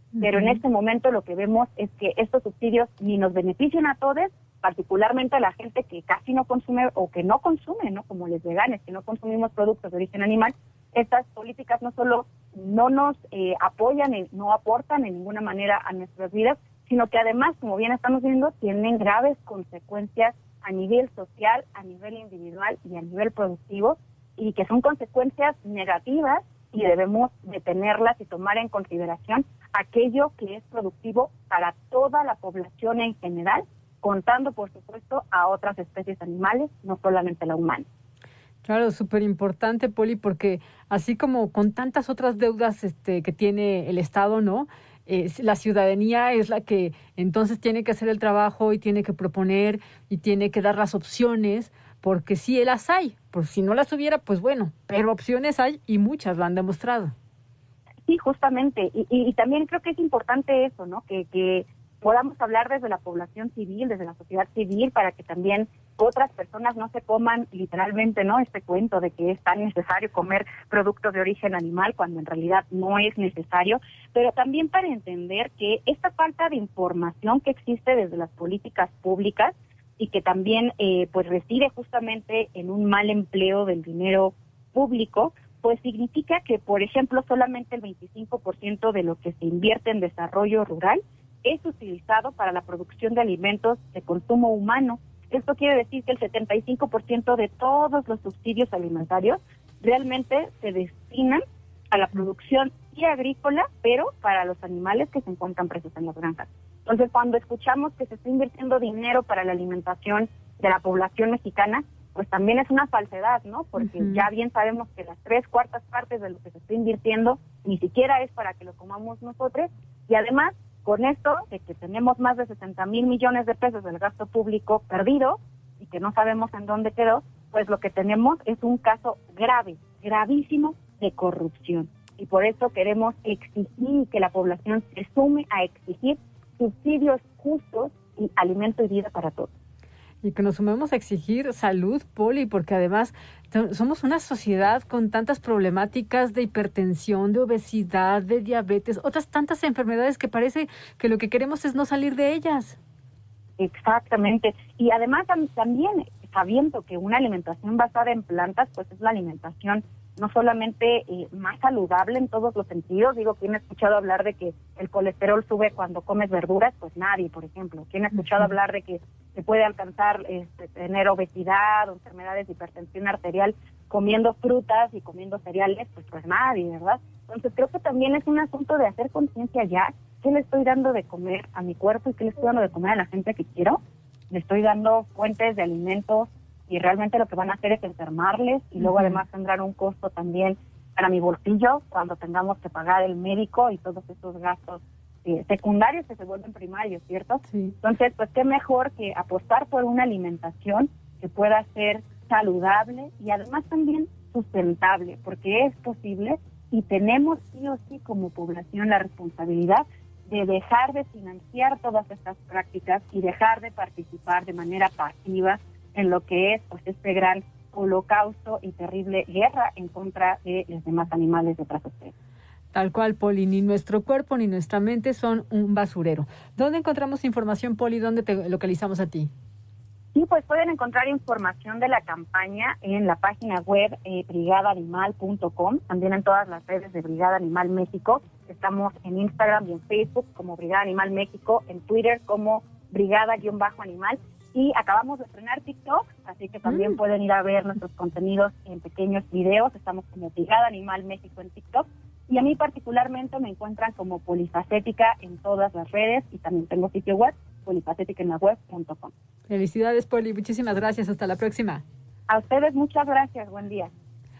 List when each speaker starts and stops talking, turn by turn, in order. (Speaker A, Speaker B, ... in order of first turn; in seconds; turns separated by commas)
Speaker A: 0.1-0.6, Speaker B: 0.2-37.8, Speaker A: 38.6-57.1, Speaker B: 58.1-139.5, Speaker A: 113.8-114.3, Speaker A: 140.2-152.8, Speaker B: 153.6-183.8, Speaker B: 184.3-222.1, Speaker A: 188.8-189.2, Speaker A: 197.5-197.7, Speaker A: 222.7-229.3, Speaker B: 230.1-259.1, Speaker A: 259.5-261.8, Speaker B: 262.3-263.9